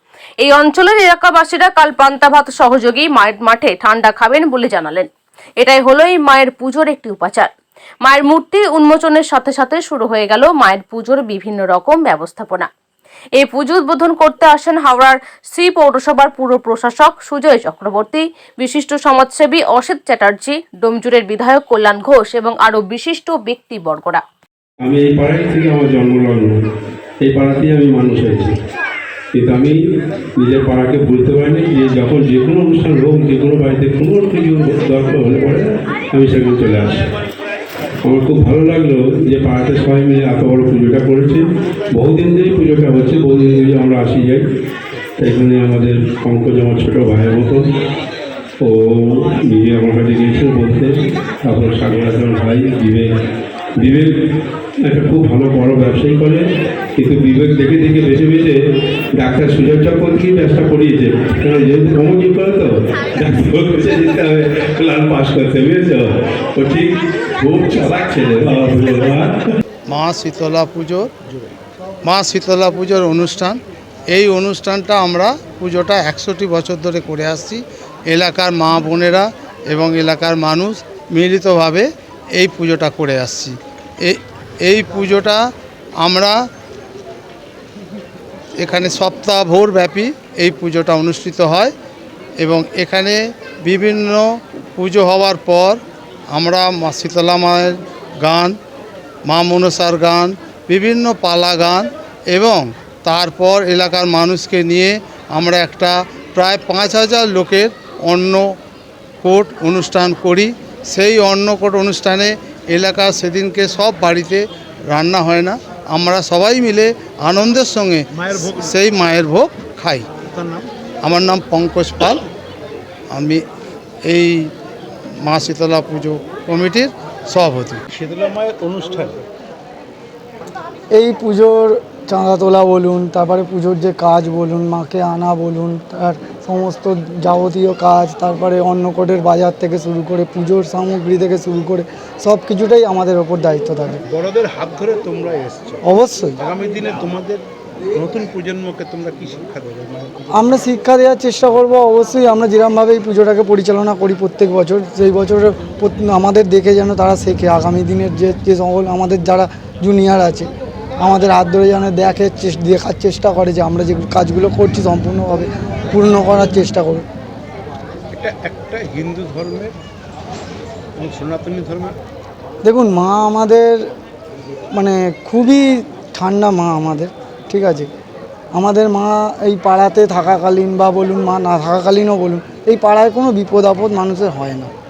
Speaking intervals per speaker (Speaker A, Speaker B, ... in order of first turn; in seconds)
Speaker A: 0.4-7.5, 8.0-12.7, 13.4-24.2
Speaker B: 24.8-26.6, 27.2-28.5, 29.3-29.8, 30.4-37.1, 38.0-41.4, 41.9-44.4, 45.2-47.7, 48.6-50.9, 51.4-53.1, 53.8-54.1, 54.8-56.4, 57.0-58.6, 59.2-69.4
Speaker C: 69.9-71.1, 72.0-73.6, 74.1-85.4, 86.0-86.4, 88.5-91.7, 92.4-95.8, 96.3-98.6, 99.2-108.5, 109.2-120.1, 121.0-122.2, 123.1-123.4, 124.0-124.5, 125.2-127.8
Speaker D: 71.2-71.5, 118.1-118.8, 120.1-120.7, 127.9-129.2, 144.1-145.8, 146.4-150.6, 168.1-169.7, 170.9-172.0
Speaker E: 130.9-144.0, 145.8-146.4, 150.3-160.5, 161.0-167.1, 172.6-173.8, 174.7-177.9, 178.5-184.7